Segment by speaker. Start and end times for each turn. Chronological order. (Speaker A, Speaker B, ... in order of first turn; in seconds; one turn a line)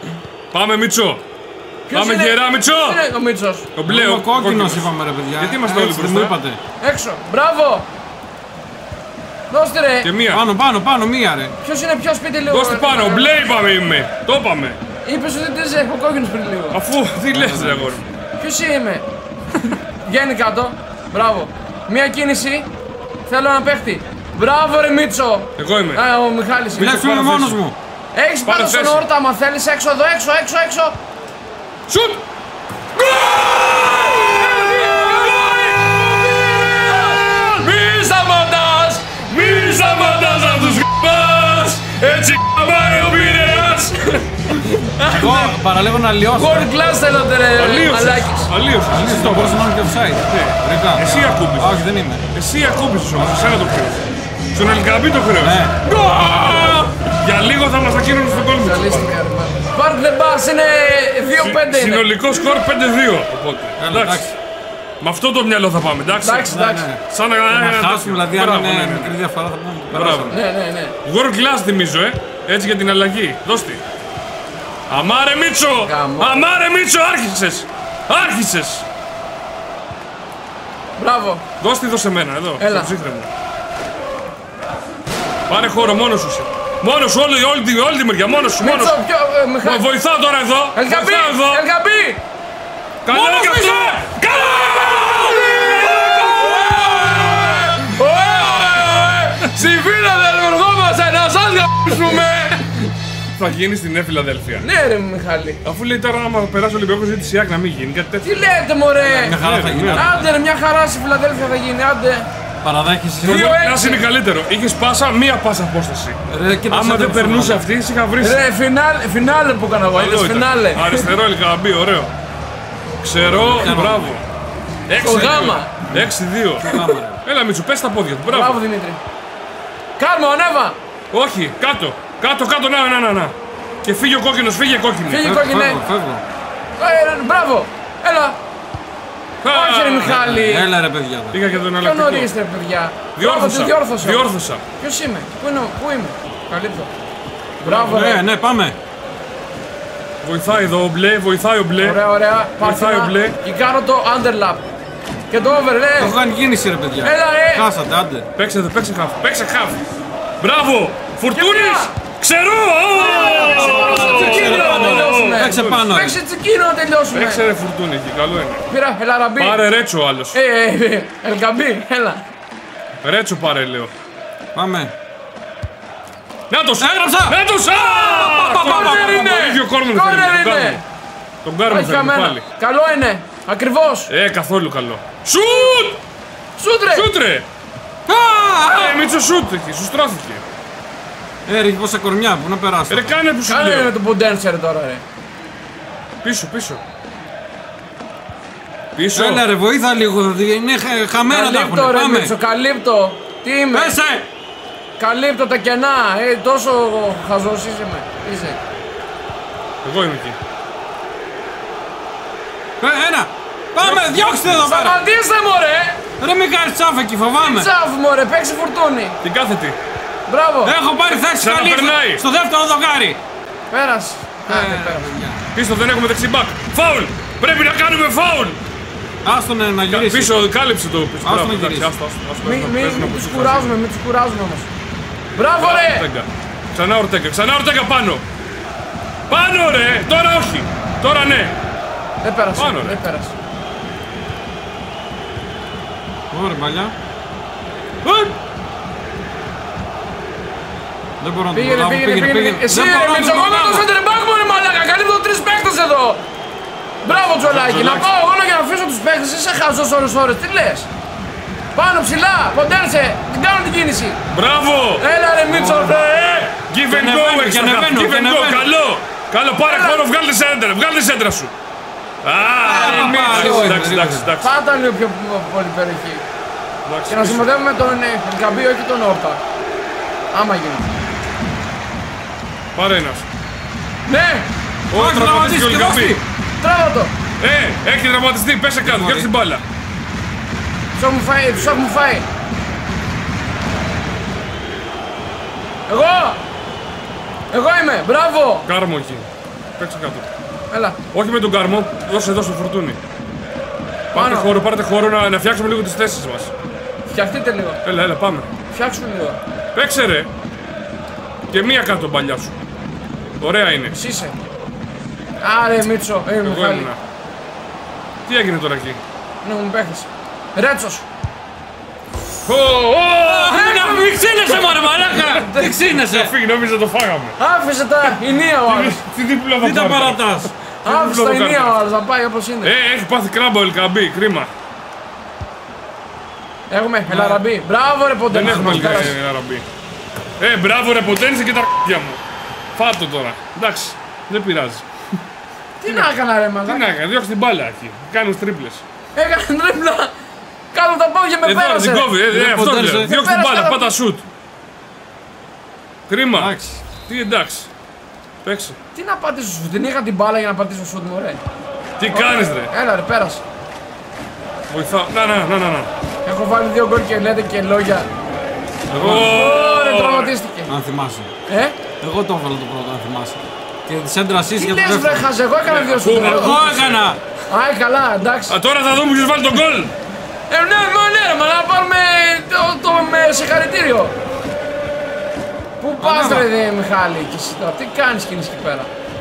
Speaker A: 0.5-1.2
Speaker B: 1.9-3.7
Speaker A: 1.9-3.0
Speaker A: 3.7-6.4
Speaker C: 3.9-6.6
Speaker B: 6.8-7.9
Speaker B: 9.5-10.1
Speaker A: 10.0-10.4
Speaker C: 10.3-11.5
Speaker B: 11.6-13.5
Speaker A: 12.5-14.8
Speaker B: 15.0-16.8
Speaker A: 16.7-18.0
Speaker C: 17.3-18.1
Speaker B: 18.4-19.0
Speaker B: 19.7-22.7
Speaker B: 23.3-27.2
Speaker A: 25.6-26.0
Speaker C: 26.7-27.8
Speaker A: 27.0-27.6
Speaker B: 28.1-31.0
Speaker A: 28.4-29.1
Speaker A: 31.9-32.2
Speaker A: 33.0-37.2
Speaker B: 33.2-41.0
Speaker A: 39.3-44.2
Speaker B: 43.1-45.5
Speaker C: 45.1-46.7
Speaker B: 46.3-48.5
Speaker A: 47.5-49.7
Speaker C: 48.9-52.2
Speaker A: 50.2-55.6
Speaker C: 55.4-55.8
Speaker B: 55.8-56.9
Speaker A: 57.2-59.1
Speaker B: 58.3-62.1
Speaker A: 61.3-64.3
Speaker C: 63.8-64.4
Speaker A: 65.0-69.2
Speaker B: 66.2-66.9
Speaker C: 66.5-70.4
Speaker A: 69.9-70.4
Speaker B: 70.3-70.9
Speaker A: 71.0-73.8
Speaker A: 74.9-78.9
Speaker B: 75.8-76.5
Speaker B: 81.0-81.4
Speaker A: 81.6-83.3
Speaker B: 82.6-82.9
Speaker A: 85.5-89.0
Speaker B: 88.6-89.8
Speaker A: 89.6-91.6
Speaker B: 90.8-92.2
Speaker A: 93.0-97.7
Speaker C: 93.1-93.9
Speaker B: 93.1-102.9
Speaker C: 96.4-97.3
Speaker A: 103.3-104.7
Speaker B: 104.6-105.6
Speaker A: 105.6-108.3
Speaker B: 108.2-109.4
Speaker C: 109.0-110.3
Speaker A: 109.4-110.1
Speaker B: 109.9-112.3
Speaker C: 112.6-113.5
Speaker B: 113.2-114.0
Speaker A: 113.2-116.2
Speaker C: 116.3-117.6
Speaker A: 116.7-118.4
Speaker B: 118.2-121.1
Speaker A: 119.9-122.1
Speaker A: 123.0-124.2
Speaker C: 123.2-124.2
Speaker A: 124.9-126.7
Speaker B: 125.0-125.8
Speaker C: 126.6-127.2
Speaker A: 127.2-128.6
Speaker B: 128.3-129.0
Speaker B: 130.0-130.8
Speaker A: 131.1-135.3
Speaker B: 135.1-135.8
Speaker C: 135.2-136.2
Speaker B: 136.8-138.4
Speaker A: 139.4-140.2
Speaker B: 139.5-140.7
Speaker C: 140.0-141.4
Speaker A: 141.3-142.3
Speaker B: 141.6-146.9
Speaker A: 143.2-144.6
Speaker B: 147.6-148.2
Speaker C: 147.6-148.8
Speaker A: 150.2-152.0
Speaker B: 151.8-154.7
Speaker A: 152.6-153.3
Speaker B: 155.3-156.2
Speaker C: 156.0-158.3
Speaker B: 157.0-157.7
Speaker A: 158.3-159.8
Speaker A: 160.4-165.8
Speaker B: 161.3-161.9
Speaker B: 162.9-167.4
Speaker C: 163.5-166.2
Speaker A: 167.1-168.7
Speaker B: 168.7-169.6
Speaker A: 169.4-170.4
Speaker B: 170.3-172.2
Speaker A: 173.0-173.9
Speaker C: 174.5-174.9
Speaker A: 176.5-180.8
Speaker C: 176.8-179.4
Speaker B: 178.5-180.8
Speaker A: 181.4-182.4
Speaker B: 181.7-184.1
Speaker A: 184.1-186.0
Speaker B: 186.6-187.1
Speaker A: 186.9-187.5
Speaker C: 188.1-189.0
Speaker A: 188.7-190.4
Speaker C: 191.4-193.2
Speaker A: 192.9-193.9
Speaker B: 193.4-195.0
Speaker A: 196.2-196.8
Speaker A: 198.9-199.4
Speaker C: 199.1-202.3
Speaker B: 201.3-204.0
Speaker C: 203.7-204.3
Speaker B: 205.0-208.6
Speaker A: 209.8-210.4
Speaker C: 212.8-215.0
Speaker A: 213.8-214.5
Speaker B: 214.6-216.0
Speaker C: 216.2-217.7
Speaker B: 217.4-219.2
Speaker A: 219.2-219.8
Speaker B: 220.3-220.8
Speaker C: 220.6-223.2
Speaker A: 221.3-222.2
Speaker B: 223.7-225.1
Speaker C: 224.5-225.4
Speaker A: 225.5-228.6
Speaker C: 229.2-230.4
Speaker A: 229.9-233.7
Speaker C: 231.2-231.9
Speaker B: 232.4-234.7
Speaker B: 235.3-236.1
Speaker A: 235.6-238.2
Speaker A: 239.3-241.6
Speaker B: 242.2-243.3
Speaker A: 242.6-243.0
Speaker C: 246.3-246.9
Speaker A: 248.1-248.3
Speaker C: 251.2-253.9
Speaker B: 251.5-256.2
Speaker B: 257.0-260.9
Speaker A: 257.1-258.1
Speaker B: 261.7-264.2
Speaker A: 264.3-265.1
Speaker B: 265.0-266.6
Speaker C: 265.4-266.0
Speaker A: 266.6-271.5
Speaker C: 266.9-268.7
Speaker B: 269.6-270.1
Speaker A: 272.2-274.5
Speaker C: 272.6-274.3
Speaker B: 272.6-273.8
Speaker B: 274.4-276.2
Speaker A: 276.9-277.5
Speaker B: 277.1-279.4
Speaker B: 280.3-280.9
Speaker A: 282.8-283.3
Speaker B: 284.1-284.5
Speaker A: 284.9-286.2
Speaker C: 284.9-286.2
Speaker B: 286.6-287.1
Speaker A: 287.4-289.6
Speaker C: 288.8-289.3
Speaker B: 290.9-292.3
Speaker B: 295.9-296.4
Speaker B: 297.5-298.7
Speaker A: 298.6-300.3
Speaker B: 300.7-301.0
Speaker A: 301.1-303.0
Speaker A: 304.1-306.5
Speaker B: 304.1-304.5
Speaker B: 307.1-307.8
Speaker A: 307.8-308.5
Speaker B: 308.7-309.4
Speaker A: 309.8-310.3
Speaker A: 311.5-312.6
Speaker A: 313.4-313.9
Speaker B: 313.9-314.4
Speaker B: 315.4-316.9
Speaker A: 316.4-317.0
Speaker A: 318.2-319.0
Speaker B: 319.4-321.1
Speaker A: 322.4-323.6
Speaker C: 323.2-326.3
Speaker B: 323.5-325.7
Speaker A: 325.6-327.4
Speaker B: 327.4-329.0
Speaker A: 328.5-331.8
Speaker C: 329.6-330.5
Speaker B: 330.8-332.7
Speaker A: 332.6-334.5
Speaker B: 336.7-339.2
Speaker C: 337.1-337.4
Speaker A: 338.3-339.6
Speaker C: 338.4-339.1
Speaker A: 340.4-342.2
Speaker A: 342.8-344.8
Speaker B: 345.8-346.9
Speaker A: 345.9-346.1
Speaker A: 346.6-348.8
Speaker B: 349.1-350.1
Speaker B: 350.7-352.1
Speaker A: 351.4-354.3
Speaker C: 352.3-353.1
Speaker B: 353.0-353.9
Speaker A: 356.1-356.5
Speaker C: 356.3-356.8
Speaker A: 357.1-357.7
Speaker A: 358.4-358.8
Speaker B: 358.9-361.4
Speaker A: 362.0-362.7
Speaker B: 362.1-363.4
Speaker A: 364.7-365.9
Speaker B: 366.2-368.1
Speaker C: 368.9-369.5
Speaker A: 368.9-370.3
Speaker B: 369.0-370.7
Speaker C: 370.7-371.3
Speaker B: 371.5-371.8
Speaker C: 372.0-375.3
Speaker B: 374.5-376.6
Speaker A: 375.6-377.0
Speaker C: 376.1-377.2
Speaker B: 377.5-378.6
Speaker A: 378.5-379.9
Speaker B: 380.5-384.1
Speaker B: 385.8-388.9
Speaker C: 386.0-386.5